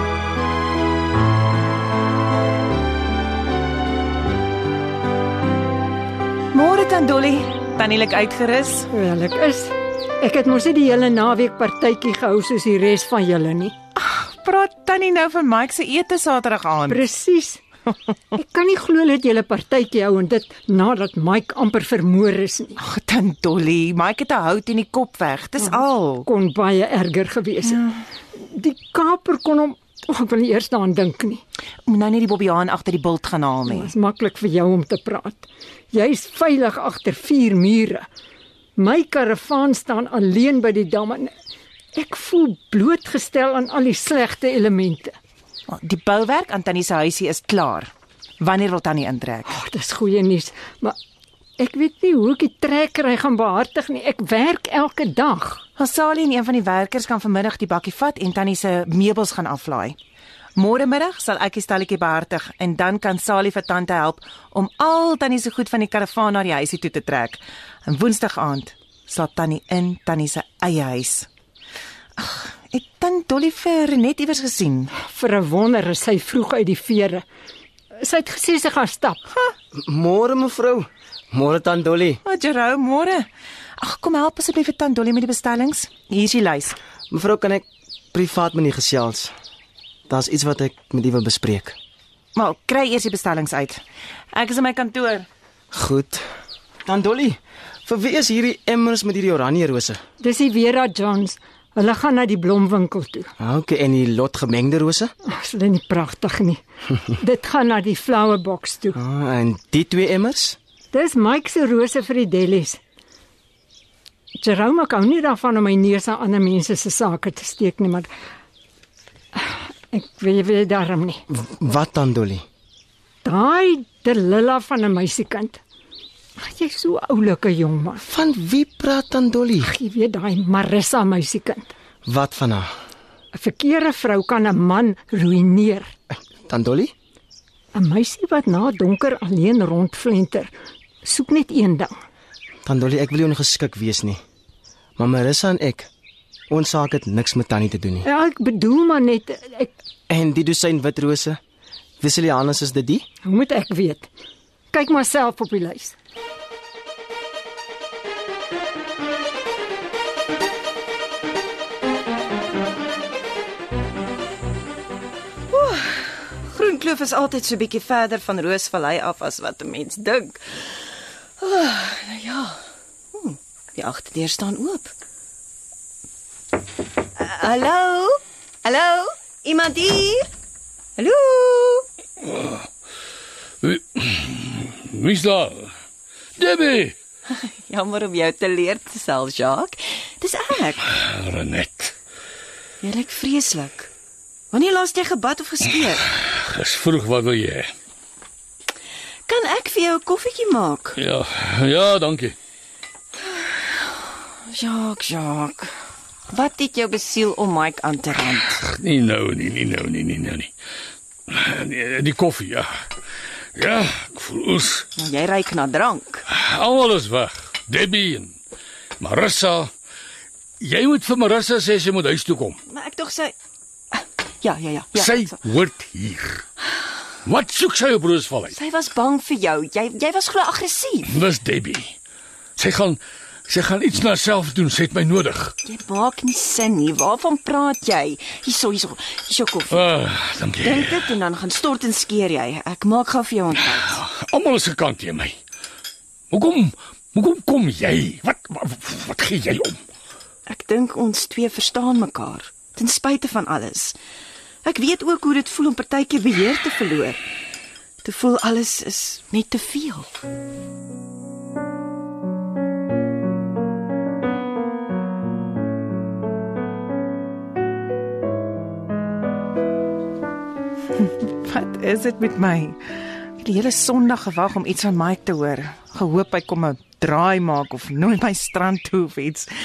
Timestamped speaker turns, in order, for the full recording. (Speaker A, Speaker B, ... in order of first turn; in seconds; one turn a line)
Speaker A: 6.5-8.9
Speaker B: 8.9-13.8
Speaker A: 14.0-17.0
Speaker B: 16.9-17.6
Speaker B: 18.3-22.8
Speaker A: 22.8-26.3
Speaker B: 25.6-27.8
Speaker A: 27.7-27.9
Speaker B: 28.4-31.4
Speaker A: 31.9-33.9
Speaker B: 33.7-38.1
Speaker B: 38.8-41.3
Speaker B: 42.0-45.1
Speaker A: 45.7-49.5
Speaker B: 49.5-51.0
Speaker B: 51.6-55.6
Speaker A: 55.8-60.0
Speaker A: 60.6-71.3
Speaker A: 72.2-74.9
Speaker B: 75.0-77.3
Speaker B: 78.0-79.2
Speaker C: 79.7-82.2
Speaker A: 82.2-83.3
Speaker A: 83.8-86.8
Speaker C: 87.1-89.3
Speaker C: 90.1-91.8
Speaker A: 92.3-93.8
Speaker A: 94.3-95.3
Speaker C: 95.7-96.2
Speaker C: 96.9-100.0
Speaker B: 100.2-103.3
Speaker C: 103.4-105.1
Speaker B: 105.3-109.0
Speaker C: 109.0-110.6
Speaker B: 110.9-112.8
Speaker B: 114.4-118.1
Speaker B: 119.4-121.2
Speaker C: 121.3-122.5
Speaker B: 123.2-125.6
Speaker B: 126.4-128.1
Speaker C: 128.0-129.7
Speaker B: 129.6-131.7
Speaker C: 132.1-132.7
Speaker B: 133.3-135.9
Speaker C: 136.5-136.9
Speaker B: 137.7-141.9
Speaker C: 142.7-144.2
Speaker C: 145.0-145.9
Speaker C: 146.5-148.1
Speaker B: 148.0-149.7
Speaker C: 150.1-151.4
Speaker C: 152.0-153.1
Speaker B: 153.2-154.1
Speaker B: 154.7-155.9
Speaker D: 165.5-170.7
Speaker D: 171.4-172.6
Speaker D: 173.2-174.9
Speaker D: 177.2-180.3
Speaker D: 181.0-181.9
Speaker E: 183.6-185.7
Speaker E: 186.4-187.0
Speaker D: 187.3-190.8
Speaker E: 190.9-191.9
Speaker D: 192.8-193.9
Speaker D: 194.5-196.1
Speaker E: 196.1-197.7
Speaker D: 199.3-201.0
Speaker E: 201.0-202.4
Speaker D: 203.4-203.7
Speaker D: 204.5-205.7
Speaker D: 206.3-208.2
Speaker E: 208.6-210.5
Speaker E: 211.3-212.7
Speaker E: 213.6-214.9
Speaker D: 215.0-216.2
Speaker E: 216.3-218.4
Speaker E: 219.0-219.7
Speaker E: 220.6-222.6
Speaker D: 222.7-223.3
Speaker D: 223.9-225.3
Speaker E: 224.9-226.4
Speaker E: 227.3-228.6
Speaker D: 228.5-231.1
Speaker E: 231.1-231.9
Speaker E: 232.6-235.6
Speaker D: 235.6-239.9
Speaker E: 239.7-241.2
Speaker D: 240.6-244.0
Speaker E: 243.5-245.4
Speaker E: 246.3-249.8
Speaker D: 250.5-254.0
Speaker D: 254.7-257.2
Speaker D: 258.0-260.1
Speaker A: 271.0-272.8
Speaker A: 273.4-279.5